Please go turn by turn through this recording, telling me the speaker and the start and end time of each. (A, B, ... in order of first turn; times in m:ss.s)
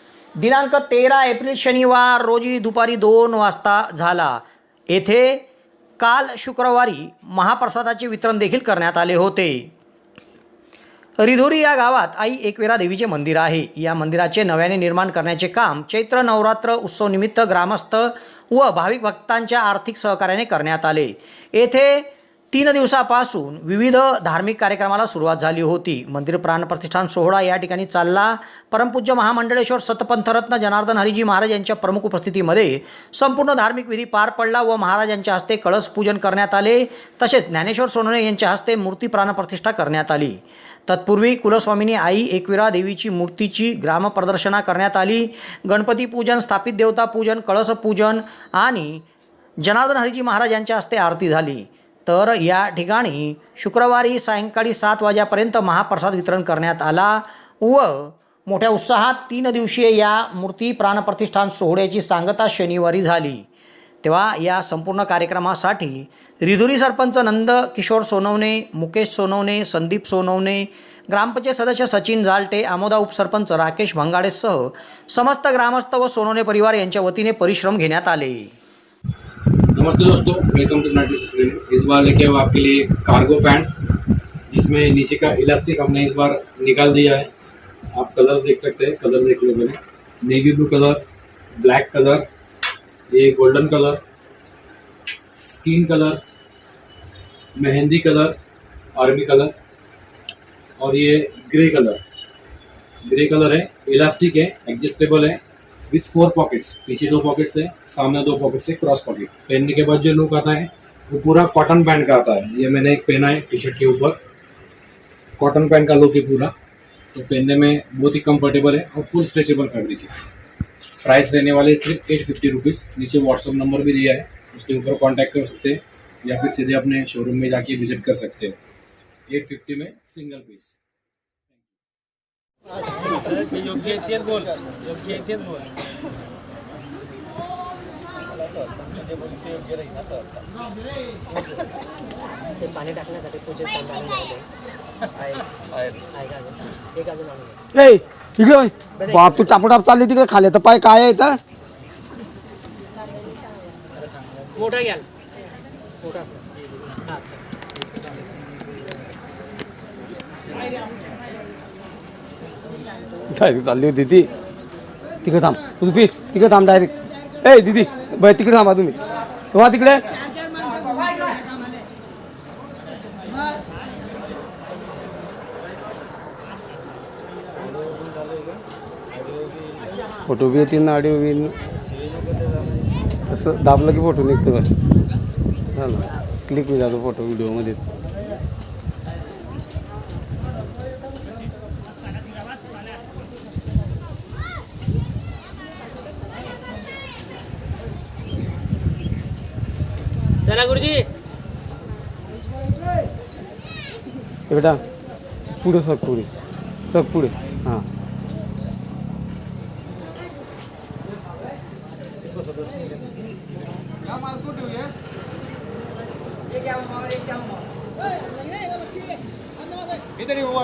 0:00.4-0:05.4 A
0:06.0-0:09.7 A
0:11.2-0:49.0 A
0:49.6-1:03.5 A
1:04.0-1:18.5 A
1:19.7-1:23.9 B
1:24.5-1:27.3 B
1:27.9-1:31.0 B
1:31.6-1:32.3 B
1:33.1-1:34.0 B
1:35.4-1:36.2 B
1:37.6-1:38.4 B
1:39.0-1:39.5 B
1:40.8-1:42.0 B
1:43.1-1:54.2 B
1:55.4-1:56.5 B
1:57.1-2:00.2 B
2:01.0-2:08.6 B
2:09.3-2:10.8 B
2:22.6-2:24.5 C
2:25.3-2:27.6 C
2:27.7-2:31.4 D
2:29.0-2:29.4 C
2:34.4-2:35.1 C
2:36.0-2:36.4 C
2:37.0-2:37.4 C
2:43.3-2:44.3 D
2:45.2-2:49.0 D
2:49.5-2:50.2 D
2:50.6-2:51.6 C
3:00.3-3:01.6 D
3:03.3-3:04.7 D
3:05.8-3:07.8 D
3:20.4-3:21.1 C
3:24.5-3:24.8 D
3:25.6-3:26.3 D
3:26.9-3:27.9 D
3:36.8-3:37.5 C